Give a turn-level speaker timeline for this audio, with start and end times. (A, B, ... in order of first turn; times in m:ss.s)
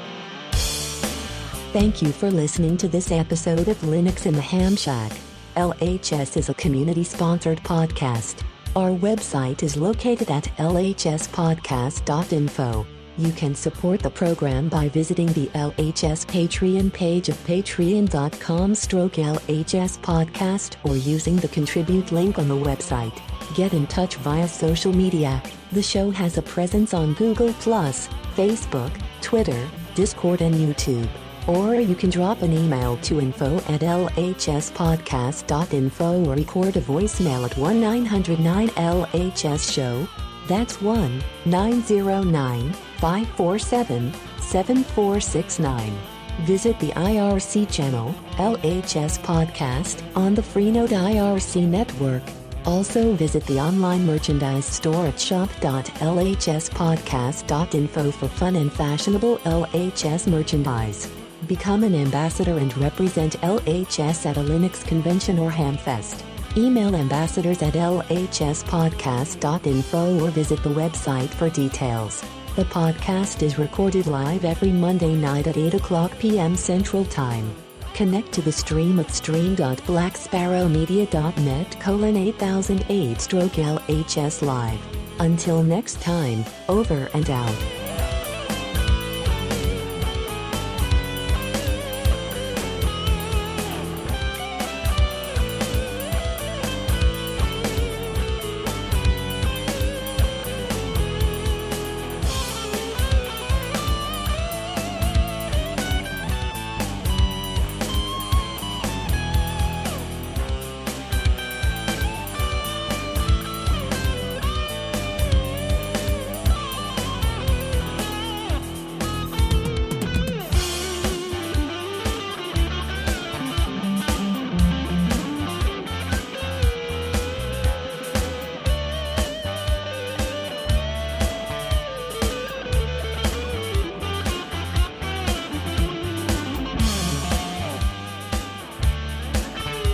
0:01.7-1:27.7 A